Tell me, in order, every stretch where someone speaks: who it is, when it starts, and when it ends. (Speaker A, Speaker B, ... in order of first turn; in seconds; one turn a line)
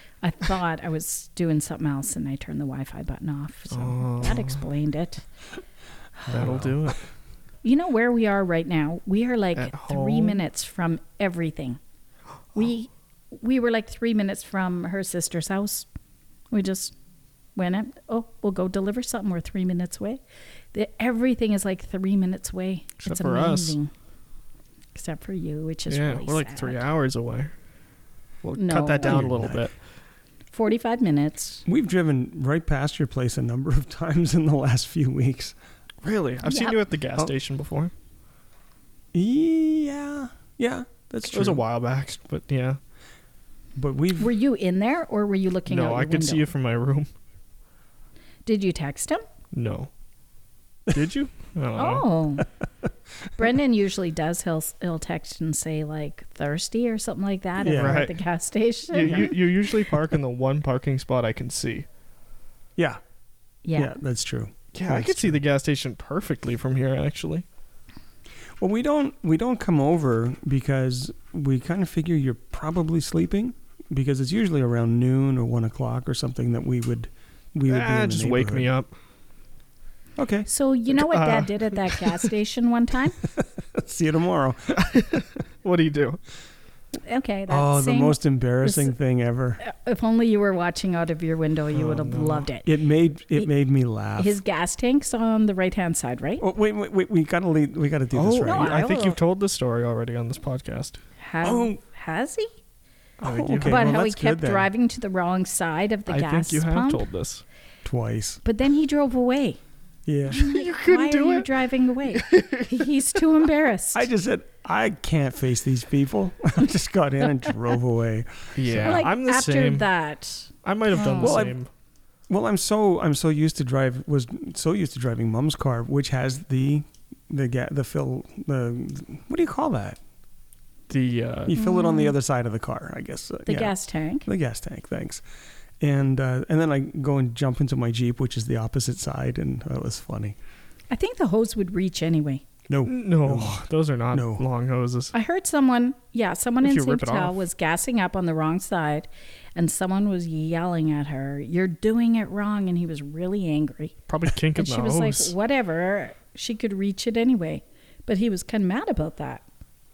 Speaker A: 0.2-5.3
Speaker B: 3.7-4.6
Speaker A: 6.2-6.5
Speaker C: 6.3-6.8
Speaker B: 6.3-7.0
Speaker A: 7.6-11.8
Speaker B: 9.6-10.4
Speaker A: 12.5-15.9
Speaker A: 16.5-16.9
Speaker A: 17.6-20.2
Speaker A: 20.7-23.9
Speaker B: 23.0-23.8
Speaker A: 24.9-26.8
Speaker B: 25.9-27.5
Speaker B: 28.4-29.7
Speaker A: 28.6-29.2
Speaker C: 29.0-29.7
Speaker A: 30.5-31.6
Speaker C: 31.7-35.6
Speaker B: 36.0-37.9
Speaker A: 36.5-36.8
Speaker C: 39.1-41.6
Speaker B: 41.3-42.8
Speaker C: 43.8-44.3
Speaker A: 44.2-46.5
Speaker B: 45.7-47.1
Speaker A: 48.5-49.2
Speaker B: 49.5-49.9
Speaker B: 50.9-52.1
Speaker A: 51.8-52.5
Speaker A: 53.4-59.4
Speaker C: 57.6-58.0
Speaker B: 57.7-58.1
Speaker B: 58.9-61.9
Speaker A: 63.6-64.0
Speaker C: 63.8-65.4
Speaker B: 64.7-67.5
Speaker C: 68.6-78.7
Speaker B: 77.7-78.9
Speaker C: 80.2-80.5
Speaker A: 80.5-83.2
Speaker B: 81.0-82.3
Speaker C: 83.3-84.8
Speaker B: 84.7-86.2
Speaker A: 87.0-88.9
Speaker C: 87.5-89.6
Speaker A: 89.6-92.7
Speaker B: 91.7-92.5
Speaker C: 92.7-94.4
Speaker A: 94.2-96.4
Speaker C: 96.4-98.8
Speaker B: 98.1-101.0
Speaker A: 98.4-99.2
Speaker A: 101.2-102.5
Speaker C: 101.4-101.8
Speaker B: 103.2-104.0
Speaker C: 103.2-104.7
Speaker A: 103.6-107.0
Speaker B: 106.1-107.4
Speaker C: 107.8-108.4
Speaker A: 108.5-109.6
Speaker C: 110.1-110.4
Speaker A: 110.3-114.1
Speaker B: 110.3-111.5
Speaker B: 112.1-112.9
Speaker C: 113.9-119.0
Speaker B: 118.6-119.9
Speaker A: 118.8-121.5
Speaker B: 120.6-121.7
Speaker C: 121.1-121.6
Speaker C: 122.3-130.0
Speaker B: 130.9-131.5
Speaker C: 131.5-135.2
Speaker A: 131.5-132.2
Speaker A: 133.5-134.3
Speaker C: 135.8-140.4
Speaker A: 140.9-142.4
Speaker C: 142.7-144.4
Speaker B: 142.8-145.1
Speaker A: 145.1-153.9
Speaker B: 146.6-147.4
Speaker B: 154.1-155.3
Speaker A: 154.6-159.4